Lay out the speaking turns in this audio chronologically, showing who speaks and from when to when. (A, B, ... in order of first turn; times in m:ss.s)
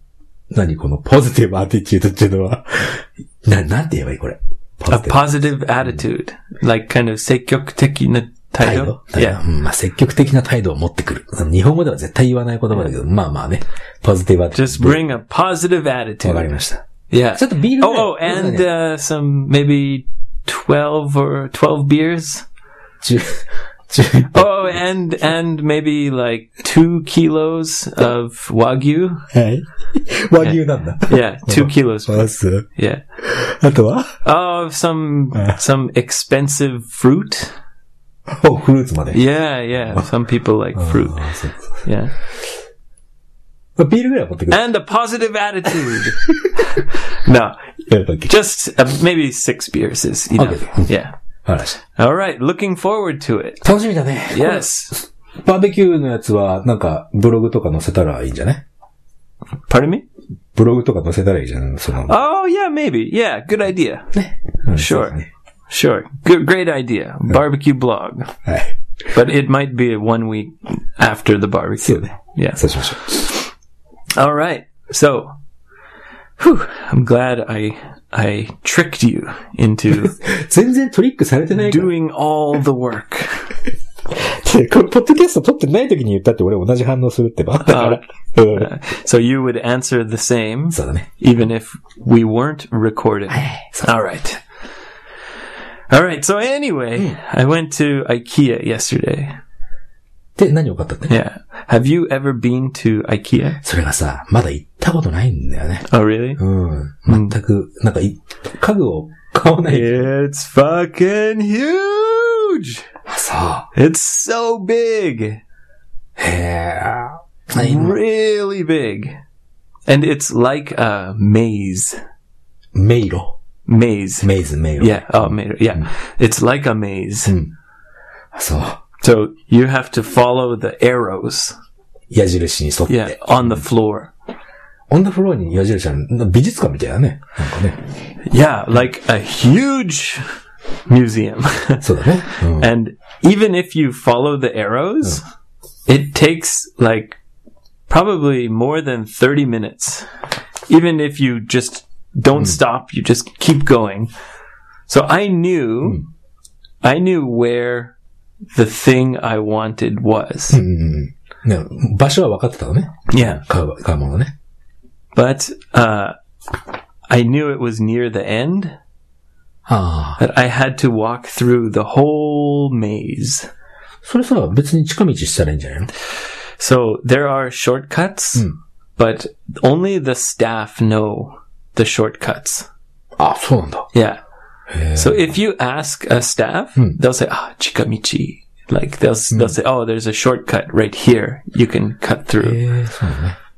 0:00.5-0:05.4 A
0:04.9-0:09.4 B
0:08.6-0:15.0 A
0:14.5-0:16.5 B
0:16.2-0:18.7 A
0:17.1-0:22.4 B
0:23.0-0:24.8 A
0:24.3-0:29.3 B
0:29.3-0:32.6 A
0:30.4-0:33.0 B
0:33.2-0:34.2 A
0:34.2-0:37.5 B
0:38.3-0:39.2 A
0:39.1-0:42.1 B
0:39.7-0:40.1 A
0:40.8-0:41.8 A
0:43.8-0:44.6 A
0:44.5-0:47.6 B
0:46.2-0:46.6 A
0:47.9-0:48.3 A
0:48.2-0:51.1 B
0:50.4-0:50.9 A
0:51.4-0:51.8 A
0:51.9-0:53.6 B
0:53.6-0:58.6 A
0:54.3-0:55.0 B
0:59.7-1:00.0 B
1:00.5-1:02.2 A
1:02.0-1:04.1 B
1:04.1-1:05.3 A
1:04.7-1:08.3 B
1:08.4-1:08.7 A
1:09.1-1:13.4 B
1:11.8-1:13.3 A
1:14.2-1:15.3 B
1:16.4-1:20.2 B
1:19.9-1:21.9 A
1:21.5-1:23.5 B
1:24.1-1:28.7 A
1:27.6-1:34.4 B
1:30.7-1:31.1 A
1:33.3-1:33.9 A
1:35.9-1:39.4 B
1:40.4-1:41.1 A
1:41.1-1:43.6 B
1:43.6-1:45.8 A
1:45.9-1:46.4 B
1:46.4-1:49.9 A
1:47.1-1:47.3 B
1:49.7-1:52.8 B
1:53.1-1:53.7 A
1:53.7-1:55.4 B
1:56.2-1:58.0 A
1:57.5-1:59.2 B
1:59.9-2:02.0 B
2:02.7-2:03.4 A
2:03.7-2:07.4 B
2:04.2-2:05.9 A
2:07.2-2:07.5 A
2:08.3-2:08.8 A
2:09.0-2:11.6 B
2:12.1-2:13.6 A
2:12.9-2:14.1 B
2:14.9-2:17.8 A
2:18.3-2:20.2 B
2:20.9-2:25.2 B
2:21.8-2:22.7 A
2:25.9-2:27.2 B
2:27.9-2:30.1 B
2:30.7-2:34.1 B
2:34.9-2:36.0 B
2:36.8-2:37.9 B
2:38.5-2:40.6 B
2:40.5-2:44.3 A
2:43.1-2:43.4 B
2:45.1-2:46.1 B
2:47.1-2:48.8 B
2:49.6-2:50.2 A
2:50.2-2:53.5 B
2:54.0-2:55.9 A
2:56.6-3:02.7 B
3:03.2-3:03.9 A
3:03.9-3:04.2 B
3:04.7-3:05.4 A
3:05.0-3:12.6 B
3:12.4-3:13.4 A